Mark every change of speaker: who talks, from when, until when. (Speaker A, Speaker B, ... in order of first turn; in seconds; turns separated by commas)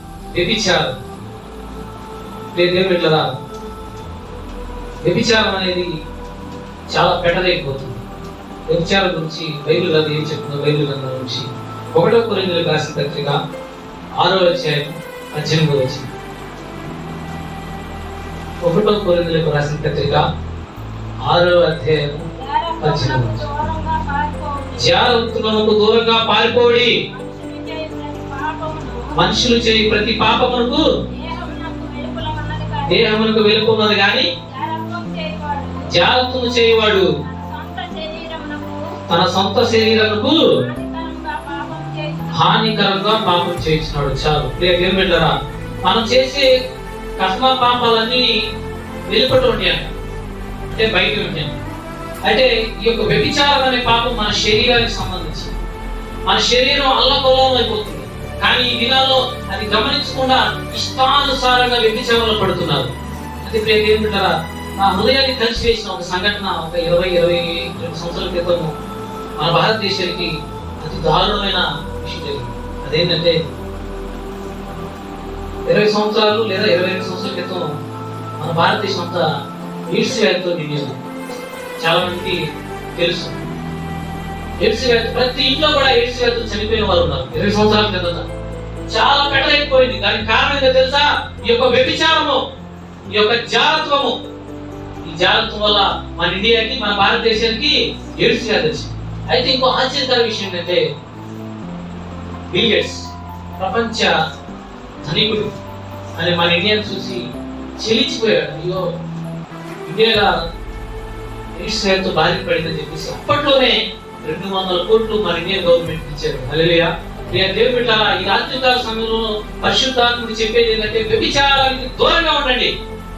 Speaker A: 0.3-1.0, Speaker A: 2.5-3.3, Speaker A: 5.0-5.9, Speaker A: 6.9-8.0, Speaker A: 8.7-13.4, Speaker A: 14.2-16.1, Speaker A: 18.6-20.2, Speaker A: 21.3-22.2, Speaker B: 22.4-25.2, Speaker A: 22.8-23.4, Speaker A: 24.8-26.9, Speaker B: 27.1-29.1, Speaker A: 29.1-30.9, Speaker B: 31.1-33.2, Speaker A: 32.9-34.3, Speaker B: 34.5-35.9, Speaker A: 35.9-37.1, Speaker B: 37.0-39.0, Speaker A: 39.1-40.5, Speaker B: 39.6-43.1, Speaker A: 42.3-46.5, Speaker A: 47.2-48.4, Speaker A: 49.1-49.9, Speaker A: 50.7-51.6, Speaker A: 52.3-55.5, Speaker A: 56.3-62.9, Speaker A: 63.4-68.7, Speaker A: 69.4-73.4, Speaker A: 75.7-77.7, Speaker A: 78.4-79.3, Speaker A: 79.9-81.0, Speaker A: 81.8-83.4, Speaker A: 84.6-88.3, Speaker A: 88.9-92.4, Speaker A: 93.1-94.2, Speaker A: 95.0-100.8, Speaker A: 102.5-104.1, Speaker A: 105.0-105.5, Speaker A: 106.2-107.2, Speaker A: 107.8-108.9, Speaker A: 109.9-110.3, Speaker A: 111.6-122.7